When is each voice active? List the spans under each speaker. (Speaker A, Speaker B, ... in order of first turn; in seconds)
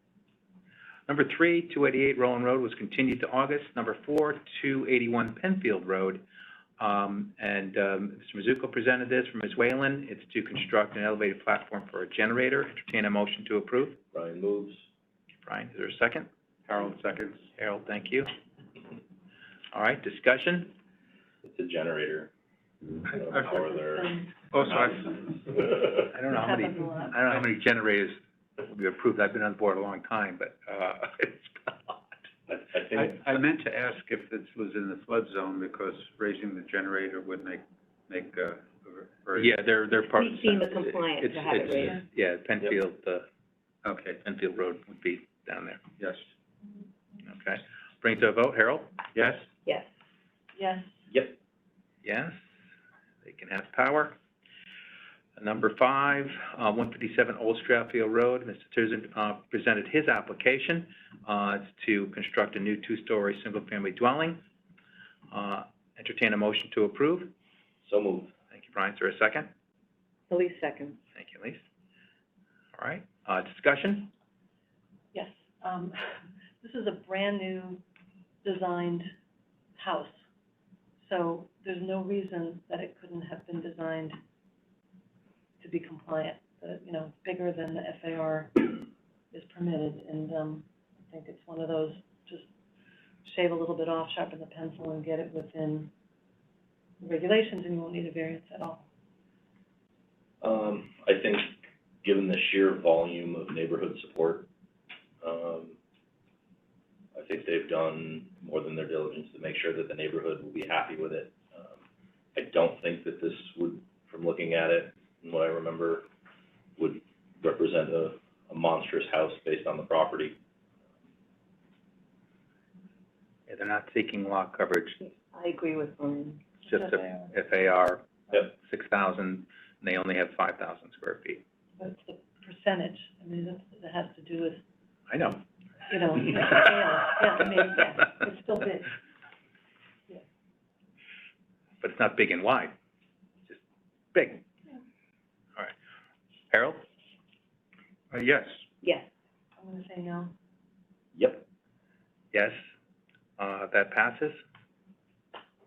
Speaker A: 1.1-6.2, 6.8-14.0, 15.5-16.3, 17.5-18.3, 19.7-20.7, 26.0-32.0, 39.4-43.2, 44.2-45.8, 47.3-49.3, 52.0-52.4, 53.2-54.2, 55.4-64.4, 65.3-67.3, 68.5-69.5, 71.2-71.6, 72.8-74.1, 123.5-125.0, 126.7-131.4, 135.1-135.4, 141.8-142.8, 144.1-144.4, 146.5-146.8, 152.3-152.6, 153.4-154.4
Speaker B: 14.1-14.8, 21.4-22.3, 23.0-25.9, 32.7-33.2, 51.1-51.4, 67.8-68.3, 100.4-104.5, 105.2-105.8, 107.1-111.8, 112.3-116.1, 116.8-120.4, 151.1-151.4
Speaker C: 16.7-17.5, 24.5-25.1, 33.0-39.6, 43.8-44.2, 46.0-46.2, 49.1-49.4, 148.1-148.6
Speaker D: 23.5-24.3, 26.3-27.2, 50.5-50.9, 75.1-76.0, 76.6-77.8, 78.4-79.1, 79.8-80.2, 81.0-84.2, 85.6-92.5, 93.2-95.9, 97.0-98.8, 126.7-127.3, 131.8-134.6, 135.9-138.9, 149.6-150.3
Speaker E: 40.1-42.0, 70.3-71.0, 125.0-126.6, 148.8-149.1